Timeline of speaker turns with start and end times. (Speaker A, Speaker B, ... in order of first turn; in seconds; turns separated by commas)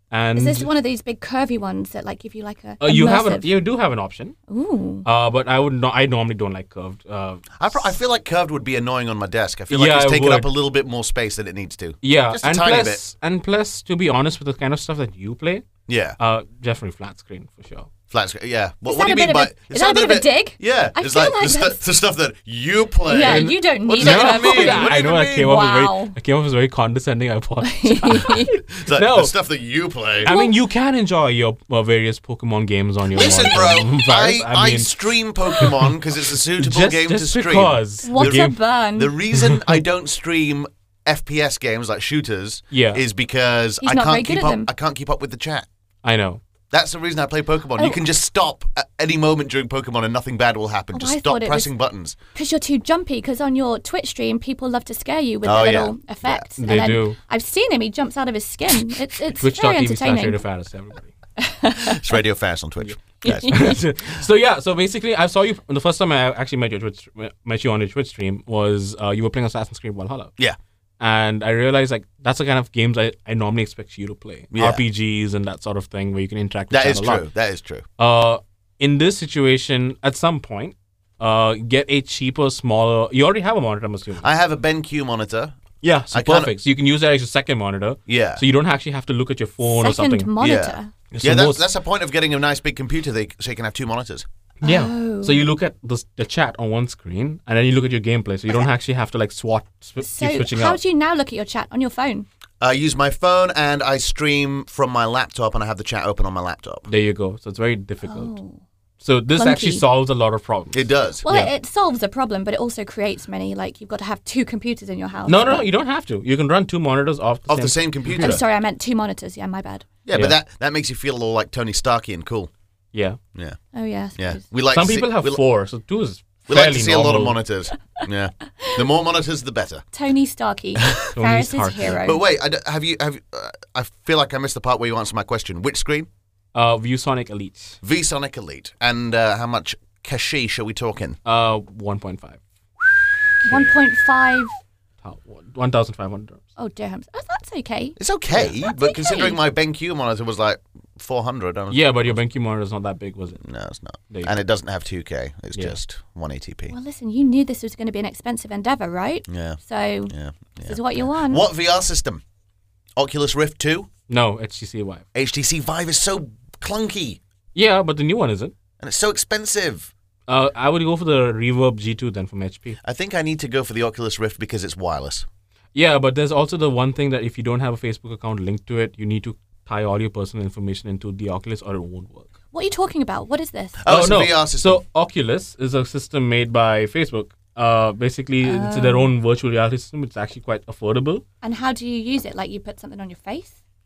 Speaker A: 0.1-0.7, Speaker B: 0.4-3.5, Speaker A: 2.8-4.3, Speaker B: 4.5-5.1, Speaker A: 5.0-8.0, Speaker C: 7.6-13.0, Speaker A: 9.7-10.5, Speaker A: 12.0-15.7, Speaker C: 15.9-16.2, Speaker A: 16.2-17.9, Speaker C: 18.1-25.5, Speaker B: 18.9-21.8, Speaker B: 23.1-26.2, Speaker A: 23.2-29.3, Speaker B: 27.6-28.6, Speaker C: 28.7-30.3, Speaker A: 30.2-34.9, Speaker B: 30.2-30.6, Speaker C: 33.1-45.7, Speaker A: 35.6-35.9, Speaker A: 36.6-38.6, Speaker B: 38.0-39.1, Speaker A: 39.3-39.8, Speaker A: 42.7-43.0, Speaker B: 43.8-44.7, Speaker A: 46.0-46.4, Speaker C: 46.7-52.2, Speaker B: 50.9-51.7, Speaker B: 52.4-60.4, Speaker C: 55.4-56.5, Speaker A: 56.6-57.2, Speaker A: 59.4-61.1, Speaker B: 61.4-62.2, Speaker C: 61.8-63.8, Speaker A: 62.8-70.3, Speaker B: 63.2-63.7, Speaker A: 71.0-77.3, Speaker C: 74.5-74.8, Speaker C: 76.7-77.8, Speaker A: 78.0-84.3, Speaker C: 84.2-85.6, Speaker A: 85.8-90.3, Speaker C: 86.1-86.6, Speaker C: 88.1-88.4, Speaker B: 89.6-90.9, Speaker C: 90.4-94.3, Speaker A: 91.1-91.7, Speaker A: 94.6-100.8, Speaker B: 94.6-95.5, Speaker B: 100.0-102.3, Speaker C: 102.6-106.8, Speaker A: 106.9-108.3, Speaker B: 108.1-108.6, Speaker A: 109.0-111.5, Speaker B: 109.4-109.8, Speaker C: 110.7-111.2, Speaker B: 111.2-115.7, Speaker A: 115.3-118.4, Speaker C: 117.5-118.4, Speaker B: 118.1-119.9, Speaker C: 120.1-122.5, Speaker A: 122.9-123.2, Speaker B: 123.7-124.4, Speaker C: 124.2-125.4, Speaker A: 124.7-127.4, Speaker C: 126.5-129.8, Speaker B: 129.9-132.2, Speaker C: 130.8-131.1, Speaker A: 131.1-132.0, Speaker C: 132.0-136.1, Speaker A: 136.5-137.8, Speaker C: 137.8-141.2, Speaker A: 141.2-142.4, Speaker A: 143.4-143.8, Speaker B: 143.5-144.6, Speaker A: 145.0-146.4, Speaker B: 146.6-148.0, Speaker C: 148.0-152.2, Speaker B: 148.6-149.4, Speaker A: 151.7-153.4, Speaker C: 153.4-156.8, Speaker A: 154.1-154.3, Speaker B: 156.7-160.1, Speaker C: 159.3-159.6, Speaker C: 160.1-162.2, Speaker B: 160.7-161.4, Speaker C: 163.0-163.9, Speaker A: 164.1-165.0, Speaker C: 165.2-167.2, Speaker A: 167.6-168.5, Speaker C: 168.8-169.9, Speaker A: 170.3-172.8, Speaker C: 172.8-175.3, Speaker A: 175.8-182.3, Speaker B: 182.5-183.8, Speaker C: 183.8-184.8, Speaker A: 183.9-191.2, Speaker B: 188.4-189.1, Speaker B: 191.4-193.6